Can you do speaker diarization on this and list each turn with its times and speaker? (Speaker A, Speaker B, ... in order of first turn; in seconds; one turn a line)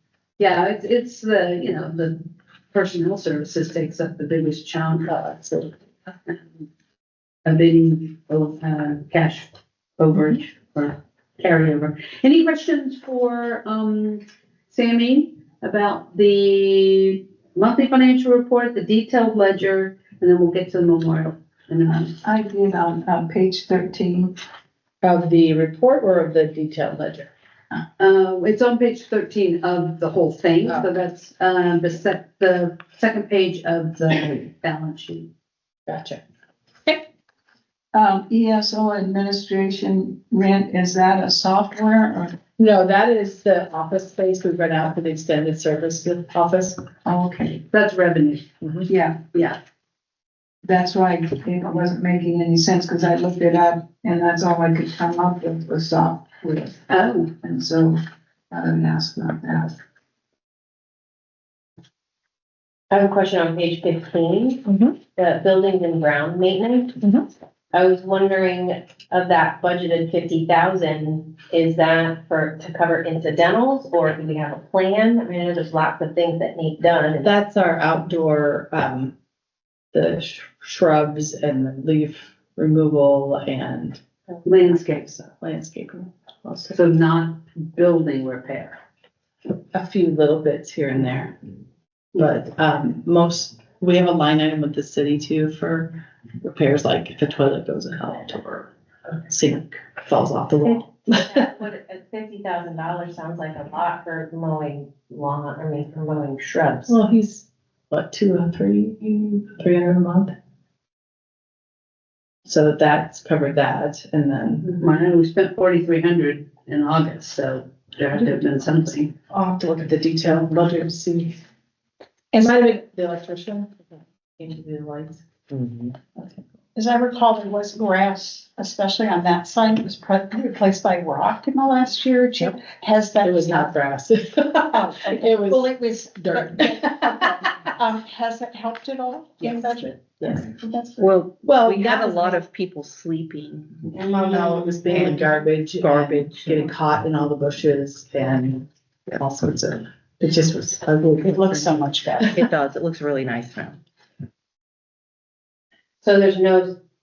Speaker A: 0.4-5.7
Speaker A: 7.4-22.2
Speaker B: 22.2-24.4
Speaker C: 25.0-27.3
Speaker A: 28.0-35.3
Speaker C: 35.9-36.2
Speaker B: 37.9-42.4
Speaker C: 42.6-46.9
Speaker B: 47.0-47.6
Speaker A: 47.7-48.4
Speaker C: 48.6-48.9
Speaker B: 48.9-49.2
Speaker A: 49.3-49.6
Speaker B: 50.6-56.8
Speaker A: 56.9-57.3
Speaker B: 57.4-59.7
Speaker D: 62.9-64.6
Speaker C: 64.7-64.9
Speaker D: 65.1-67.0
Speaker D: 67.7-77.3
Speaker C: 77.2-79.1
Speaker C: 79.9-84.0
Speaker A: 84.4-85.1
Speaker C: 84.9-86.8
Speaker A: 86.7-88.8
Speaker C: 89.7-91.3
Speaker C: 92.2-98.7
Speaker C: 99.3-101.5
Speaker D: 100.6-106.9
Speaker C: 106.9-110.3
Speaker C: 112.5-114.7
Speaker A: 114.6-119.1
Speaker C: 119.3-121.4
Speaker C: 122.3-123.7
Speaker C: 124.4-125.2
Speaker E: 125.5-125.9
Speaker C: 126.1-126.4
Speaker F: 126.7-133.8
Speaker C: 133.2-135.7
Speaker F: 134.7-141.2
Speaker C: 136.2-137.6
Speaker C: 139.4-140.4
Speaker E: 141.0-146.7
Speaker C: 141.4-142.4
Speaker C: 144.0-151.3
Speaker F: 150.9-152.4
Speaker E: 152.3-153.8
Speaker D: 156.0-156.7